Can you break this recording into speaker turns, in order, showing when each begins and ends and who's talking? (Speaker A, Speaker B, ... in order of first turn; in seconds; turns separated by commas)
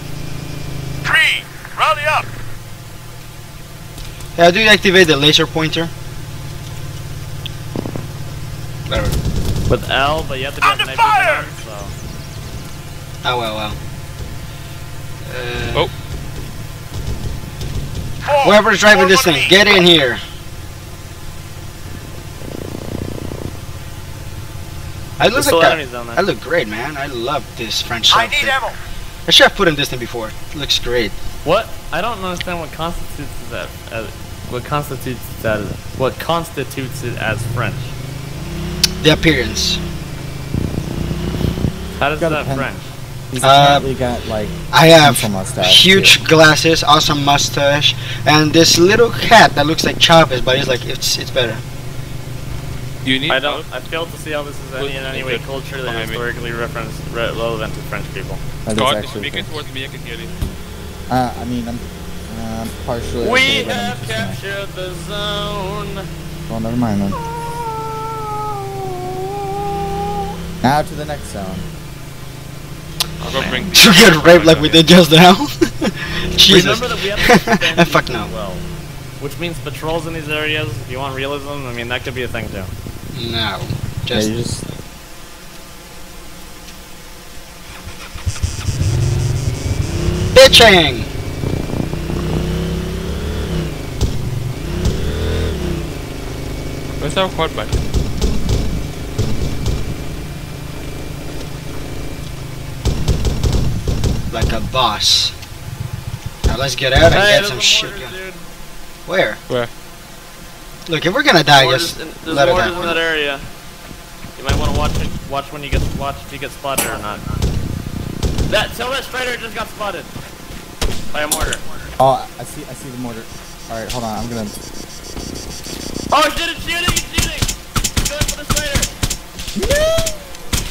Speaker A: 1.0-2.3, Speaker B: 4.4-5.9, Speaker B: 8.9-9.2, Speaker C: 9.7-11.9, Speaker A: 10.6-11.5, Speaker B: 13.2-13.8, Speaker B: 15.2-15.9, Speaker A: 18.3-19.7, Speaker B: 18.4-20.2, Speaker B: 25.2-28.6, Speaker C: 25.3-26.2, Speaker A: 28.1-28.8, Speaker B: 29.3-31.1, Speaker C: 31.4-37.9, Speaker B: 39.0-39.8, Speaker C: 42.0-42.8, Speaker D: 42.2-42.7, Speaker D: 43.3-46.2, Speaker B: 43.4-43.9, Speaker B: 44.7-51.6, Speaker E: 53.0-53.7, Speaker C: 53.3-58.4, Speaker E: 54.8-56.2, Speaker D: 58.6-59.5, Speaker E: 58.7-60.3, Speaker D: 61.1-64.4, Speaker C: 63.2-66.0, Speaker D: 66.5-67.2, Speaker D: 70.6-71.7, Speaker E: 73.2-74.9, Speaker C: 73.3-73.7, Speaker B: 73.7-78.3, Speaker C: 76.5-78.7, Speaker C: 79.2-82.7, Speaker B: 83.1-84.3, Speaker D: 84.1-84.6, Speaker B: 90.3-91.1, Speaker E: 97.0-97.9, Speaker B: 104.3-105.3, Speaker B: 106.5-108.2, Speaker C: 107.0-108.5, Speaker B: 109.1-109.4, Speaker B: 110.9-113.1, Speaker C: 111.4-113.5, Speaker C: 114.4-117.2, Speaker C: 118.5-120.1, Speaker C: 121.1-121.6, Speaker D: 122.0-124.6, Speaker C: 126.1-127.5, Speaker C: 128.0-128.9, Speaker D: 129.6-130.2